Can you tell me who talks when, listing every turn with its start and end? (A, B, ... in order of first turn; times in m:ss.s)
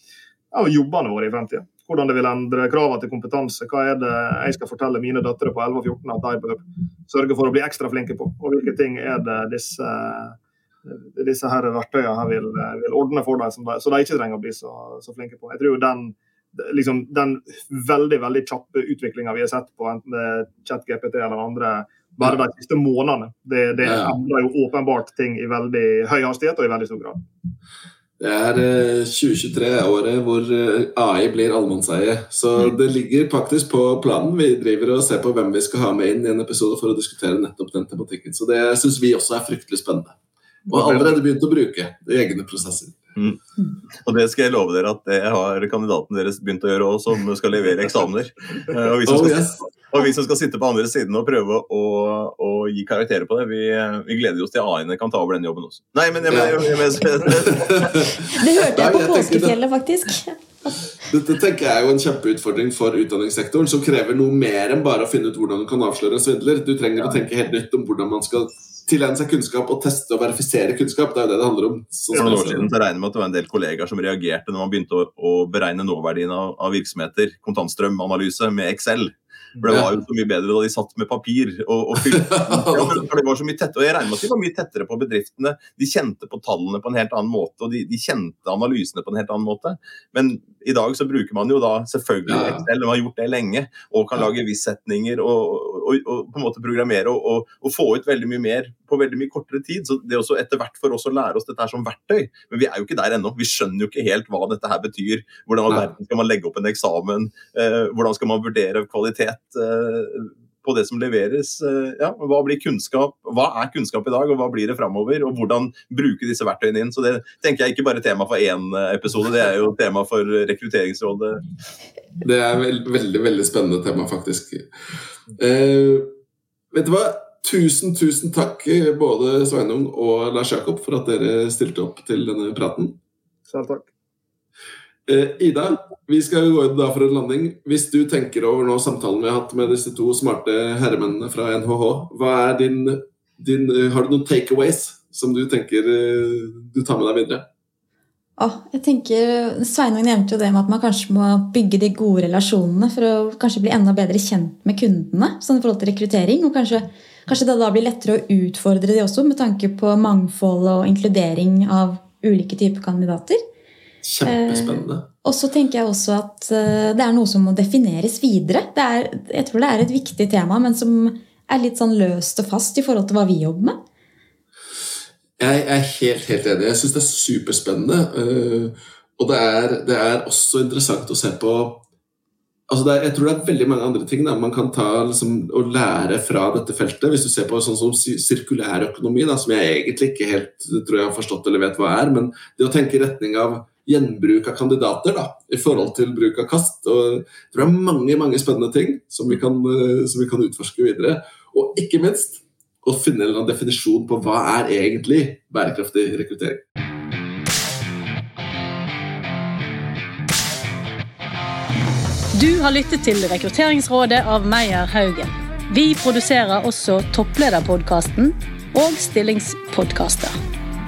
0:00.5-0:27.2 A
0:23.8-0:24.2 B
0:28.2-0:43.0 B
0:40.7-0:41.1 A
0:43.9-0:58.0 C
0:49.0-0:49.6 B
0:56.3-0:58.1 B
0:58.2-1:00.4 D
0:58.7-0:59.6 B
1:01.0-1:12.7 B
1:12.1-2:01.4 C
1:19.6-1:19.8 A
1:22.1-1:23.0 B
1:32.2-1:32.6 B
2:02.2-2:04.7 B
2:05.4-2:06.1 B
2:06.7-2:13.0 B
2:13.5-2:13.9 A
2:15.0-2:27.4 B
2:28.4-2:43.4 D
2:44.0-2:45.1 B
2:44.2-2:53.8 D
2:55.4-3:01.8 B
3:02.7-3:26.6 B
3:32.3-3:40.3 E